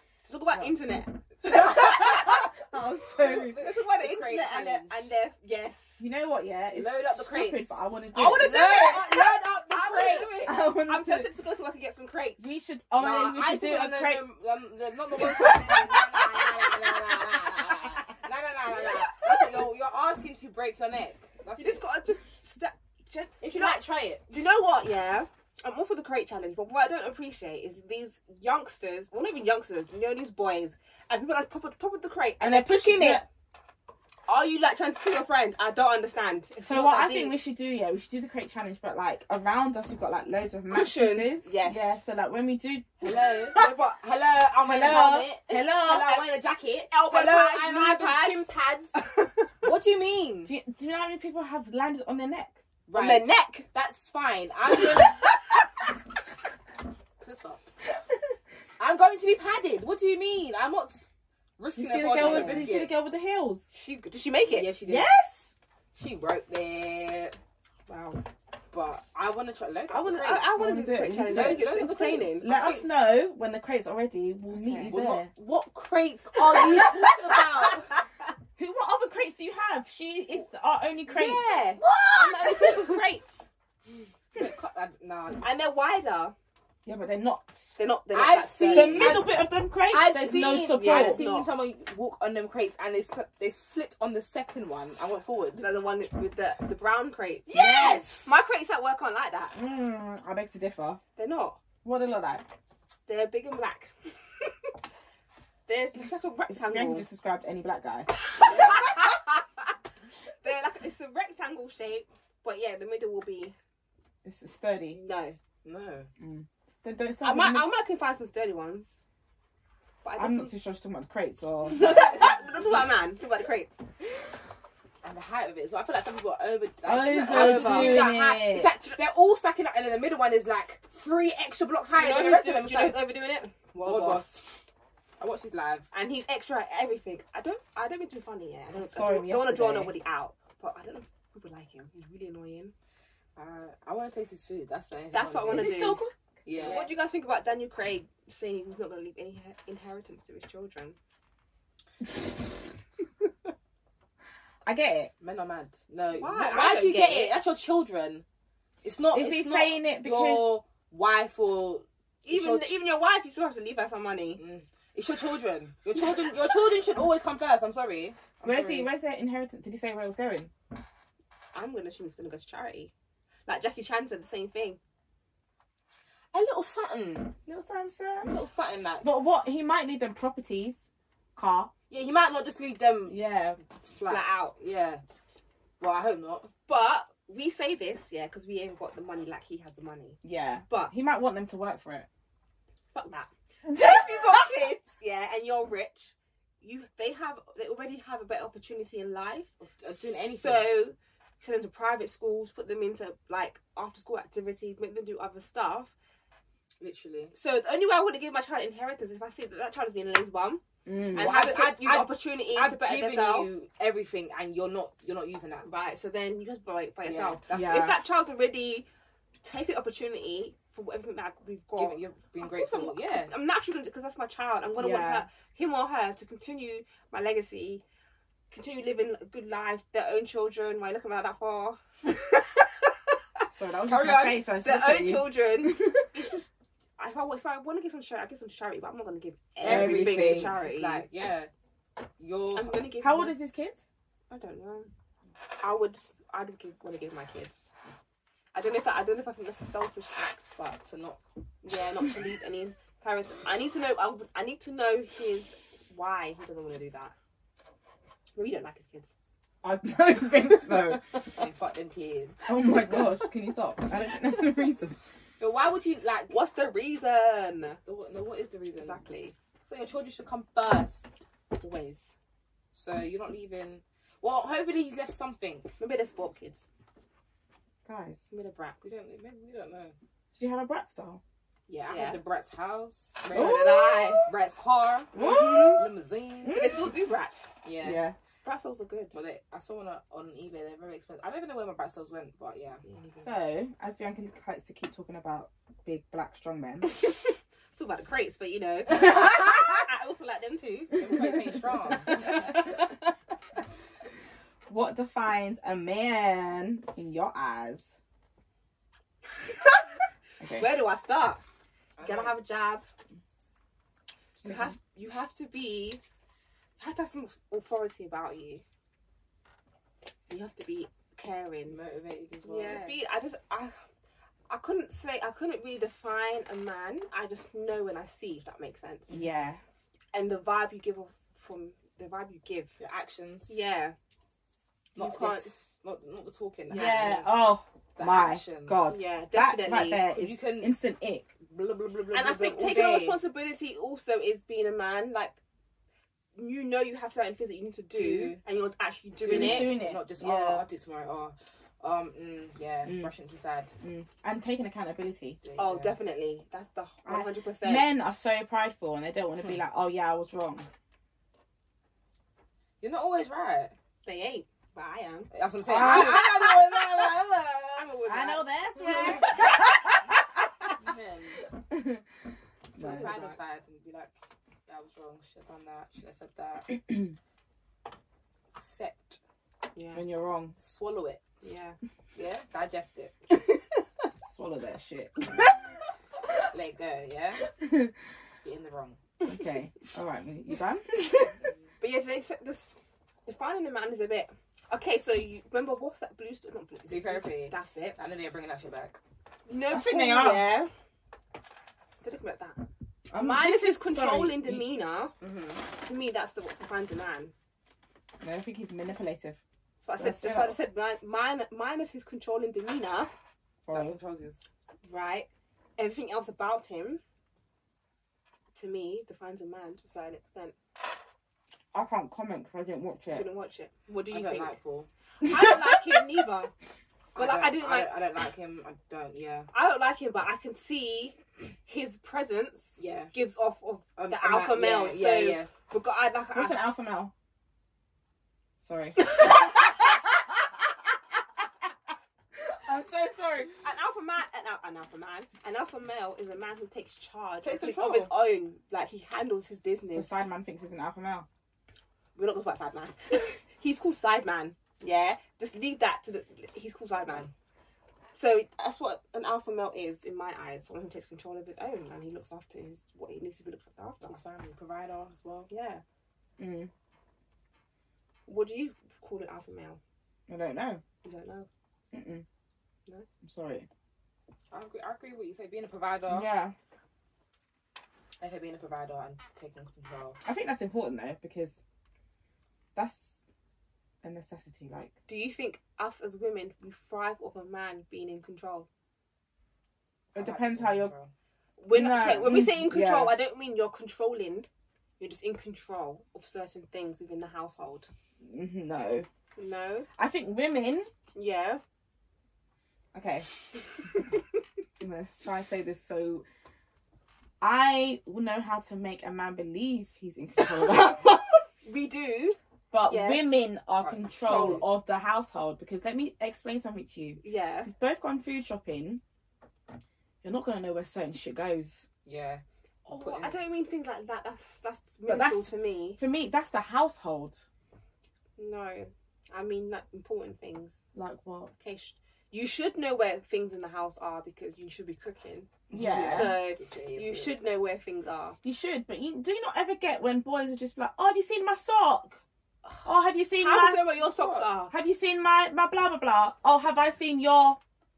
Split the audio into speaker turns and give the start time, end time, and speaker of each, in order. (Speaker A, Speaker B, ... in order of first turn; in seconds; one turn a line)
Speaker A: 0.2-2.5
Speaker B: 1.4-3.6
Speaker A: 3.2-6.0
Speaker C: 3.5-5.1
Speaker B: 6.0-8.5
Speaker C: 6.7-10.4
Speaker A: 8.1-12.5
Speaker B: 10.4-11.3
Speaker B: 12.4-14.2
Speaker C: 13.0-21.8
Speaker A: 21.6-33.2
Speaker C: 23.4-24.2
Speaker B: 32.4-33.3
Speaker A: 34.3-37.4
Speaker B: 36.6-43.1
Speaker C: 40.7-41.2
Speaker A: 41.1-42.0
Speaker C: 43.0-48.9
Speaker A: 43.5-44.0
Speaker B: 44.6-46.1
Speaker A: 46.9-49.6
Speaker C: 49.6-50.5
Speaker B: 50.5-52.6
Speaker C: 52.9-55.2
Speaker A: 52.9-53.7
Speaker A: 54.9-55.3
Speaker C: 57.2-57.6
Speaker C: 58.8-61.1
Speaker C: 61.6-63.0
Speaker B: 61.8-63.7
Speaker A: 62.1-62.7
Speaker A: 63.7-64.7
Speaker C: 64.5-65.1
Speaker B: 64.8-65.5
Speaker C: 65.9-67.4
Speaker A: 67.9-68.2
Speaker C: 68.7-72.8
Speaker A: 69.9-72.6
Speaker B: 70.5-75.3
Speaker A: 74.5-75.0
Speaker C: 74.9-77.9
Speaker B: 78.6-81.6
Speaker A: 81.1-83.5
Speaker C: 81.8-82.8
Speaker C: 84.3-85.5
Speaker A: 85.4-86.3
Speaker B: 86.9-87.8
Speaker A: 87.8-89.2
Speaker C: 88.1-95.7
Speaker B: 88.7-91.2
Speaker A: 90.6-91.5
Speaker A: 95.6-97.5
Speaker C: 97.5-98.3
Speaker B: 97.5-98.0
Speaker A: 98.2-99.6
Speaker B: 99.5-101.0
Speaker A: 101.2-101.6
Speaker B: 101.8-102.5
Speaker A: 103.1-104.7
Speaker A: 105.7-107.1
Speaker B: 106.5-108.1
Speaker A: 108.4-109.3
Speaker A: 110.4-113.6
Speaker B: 114.2-115.0
Speaker A: 114.9-115.4
Speaker C: 115.6-116.1
Speaker B: 116.2-117.7
Speaker A: 117.2-118.9
Speaker A: 120.0-120.5
Speaker B: 120.2-122.2
Speaker A: 121.7-123.8
Speaker C: 125.0-133.1
Speaker B: 126.8-128.7
Speaker A: 127.2-128.2
Speaker A: 128.7-129.0
Speaker A: 131.9-134.3
Speaker C: 133.8-134.6
Speaker C: 135.2-135.9
Speaker A: 135.9-142.7
Speaker B: 138.7-139.9
Speaker C: 143.4-145.9
Speaker A: 145.1-151.0
Speaker B: 145.5-146.1
Speaker C: 146.4-146.9
Speaker B: 154.7-155.1
Speaker C: 155.2-158.2
Speaker A: 156.1-157.3
Speaker C: 158.8-162.7
Speaker B: 159.1-160.6
Speaker A: 162.2-164.4
Speaker C: 164.4-168.9
Speaker B: 168.4-170.5
Speaker A: 171.5-172.9
Speaker A: 173.5-174.8
Speaker C: 176.3-177.3
Speaker B: 177.5-178.4
Speaker C: 178.2-179.1
Speaker B: 179.0-181.7
Speaker C: 181.9-183.2
Speaker B: 183.1-183.6
Speaker C: 183.8-185.0
Speaker A: 184.1-184.6
Speaker C: 185.8-186.5
Speaker A: 186.7-190.9
Speaker B: 190.2-192.1
Speaker A: 192.9-205.9
Speaker B: 193.8-194.0
Speaker C: 199.8-200.7
Speaker C: 206.8-207.3
Speaker A: 207.3-210.6
Speaker B: 210.9-211.3
Speaker A: 211.1-213.5
Speaker C: 211.2-215.7
Speaker A: 215.6-218.9
Speaker C: 217.0-217.5
Speaker B: 217.5-218.0
Speaker A: 219.4-227.8
Speaker C: 221.8-223.3
Speaker B: 224.8-225.3
Speaker A: 228.5-233.4
Speaker B: 233.5-235.9
Speaker C: 233.9-234.4
Speaker A: 234.6-241.1
Speaker C: 239.6-241.5
Speaker B: 239.6-240.6
Speaker C: 242.2-242.9
Speaker A: 242.6-243.3
Speaker B: 243.0-243.8
Speaker A: 244.3-244.9
Speaker A: 245.6-247.7
Speaker A: 248.5-250.8
Speaker C: 250.8-251.2
Speaker A: 251.6-257.1
Speaker A: 258.4-259.1
Speaker B: 259.6-261.2
Speaker C: 261.3-262.5
Speaker B: 262.5-265.0
Speaker C: 265.4-266.4
Speaker A: 266.3-267.8
Speaker C: 267.9-269.0
Speaker A: 268.8-269.4
Speaker C: 269.7-271.1
Speaker A: 271.5-272.1
Speaker C: 272.7-275.8
Speaker A: 275.8-276.7
Speaker B: 277.9-278.2
Speaker A: 278.3-278.9
Speaker C: 278.8-279.9
Speaker B: 280.4-281.2
Speaker C: 281.7-285.1
Speaker A: 281.9-282.2
Speaker A: 283.2-284.2
Speaker B: 283.3-284.2
Speaker B: 285.1-285.9
Speaker A: 285.1-285.8
Speaker C: 285.7-286.7
Speaker B: 286.5-286.7
Speaker A: 286.5-287.5
Speaker C: 287.6-288.0
Speaker B: 287.8-288.1
Speaker A: 288.4-289.2
Speaker C: 289.1-292.8
Speaker A: 292.9-293.3
Speaker B: 293.2-296.9
Speaker A: 297.8-301.1
Speaker C: 301.0-302.4
Speaker A: 301.9-302.9
Speaker B: 304.7-307.9
Speaker B: 310.4-310.8
Speaker A: 310.6-311.4
Speaker C: 312.0-312.3
Speaker A: 312.0-312.9
Speaker A: 314.4-316.0
Speaker A: 316.8-318.6
Speaker A: 320.3-321.8
Speaker C: 321.7-323.0
Speaker A: 322.4-323.8
Speaker A: 324.5-329.2
Speaker B: 329.1-329.6
Speaker A: 330.1-332.7
Speaker C: 332.8-333.6
Speaker A: 333.5-334.0
Speaker A: 334.9-335.6
Speaker C: 334.9-337.4
Speaker A: 336.7-337.2
Speaker B: 336.7-341.3
Speaker C: 338.0-338.9
Speaker A: 338.9-340.4
Speaker C: 340.1-340.8
Speaker C: 341.4-343.2
Speaker A: 342.1-345.4
Speaker A: 346.4-349.8
Speaker C: 347.9-348.4
Speaker C: 349.2-353.7
Speaker B: 349.2-350.7
Speaker B: 353.8-355.4
Speaker C: 355.4-355.9
Speaker A: 355.6-357.9
Speaker B: 357.1-360.7
Speaker C: 362.8-363.7
Speaker A: 364.1-366.4
Speaker C: 365.3-367.9
Speaker B: 365.7-366.3
Speaker A: 367.8-369.4
Speaker B: 368.1-370.7
Speaker C: 370.7-371.4
Speaker B: 371.6-372.0
Speaker C: 372.8-374.1
Speaker B: 372.8-373.1
Speaker A: 372.8-373.4
Speaker C: 374.7-376.8
Speaker C: 378.6-379.2
Speaker A: 379.8-380.0
Speaker B: 379.9-380.6
Speaker C: 380.6-381.2
Speaker A: 381.4-381.8
Speaker C: 382.1-383.1
Speaker B: 384.2-385.4
Speaker C: 386.5-387.5
Speaker B: 387.6-387.9
Speaker C: 388.4-389.0
Speaker B: 389.2-391.3
Speaker A: 391.8-392.7
Speaker A: 393.3-398.0
Speaker C: 396.9-399.0
Speaker A: 399.5-400.7
Speaker B: 399.7-400.5
Speaker A: 402.0-402.6
Speaker B: 403.1-404.7
Speaker A: 403.1-405.1
Speaker C: 405.2-405.7
Speaker A: 405.7-407.3
Speaker B: 408.2-409.4
Speaker A: 409.8-413.1
Speaker B: 410.0-410.6
Speaker B: 413.7-414.0
Speaker C: 413.7-414.4
Speaker A: 414.8-417.0
Speaker A: 418.6-420.5
Speaker B: 421.7-423.3
Speaker A: 423.1-424.5
Speaker C: 424.1-424.9
Speaker A: 425.2-426.5
Speaker C: 427.1-429.5
Speaker A: 427.2-427.9
Speaker A: 429.5-436.6
Speaker C: 432.8-433.1
Speaker C: 434.0-435.5
Speaker B: 436.4-437.1
Speaker B: 438.6-439.7
Speaker B: 442.4-443.6
Speaker A: 443.6-450.1
Speaker C: 447.4-448.1
Speaker B: 449.9-451.3
Speaker A: 452.1-457.3
Speaker A: 458.1-464.2
Speaker C: 464.1-465.5
Speaker A: 465.5-465.8
Speaker B: 466.4-466.7
Speaker A: 468.3-469.8
Speaker B: 470.3-470.8
Speaker A: 471.0-471.5
Speaker B: 471.9-472.2
Speaker B: 473.2-473.7
Speaker C: 474.5-476.3
Speaker B: 476.1-476.5
Speaker C: 478.2-480.2
Speaker B: 480.2-481.6
Speaker B: 482.8-483.2
Speaker B: 484.0-484.9
Speaker A: 485.1-488.7
Speaker B: 490.1-490.9
Speaker C: 490.1-491.1
Speaker A: 491.6-494.5
Speaker B: 491.7-493.1
Speaker A: 495.0-497.9
Speaker B: 498.2-499.1
Speaker A: 499.4-499.9
Speaker B: 499.9-500.9
Speaker A: 501.1-501.6
Speaker B: 502.9-503.3
Speaker B: 504.8-506.2
Speaker B: 507.4-511.4
Speaker A: 510.6-510.9
Speaker A: 511.6-513.4
Speaker B: 512.7-519.0
Speaker C: 513.8-514.7
Speaker A: 514.2-514.7
Speaker A: 517.2-517.7
Speaker B: 520.2-521.9
Speaker C: 522.1-523.4
Speaker A: 522.9-526.0
Speaker B: 525.1-527.4
Speaker A: 528.4-530.8
Speaker B: 530.9-531.5
Speaker A: 531.6-538.4
Speaker B: 535.7-536.4
Speaker C: 535.7-537.4
Speaker B: 538.4-542.2
Speaker B: 542.9-544.0
Speaker A: 543.4-544.7
Speaker C: 544.0-544.5
Speaker B: 544.7-547.6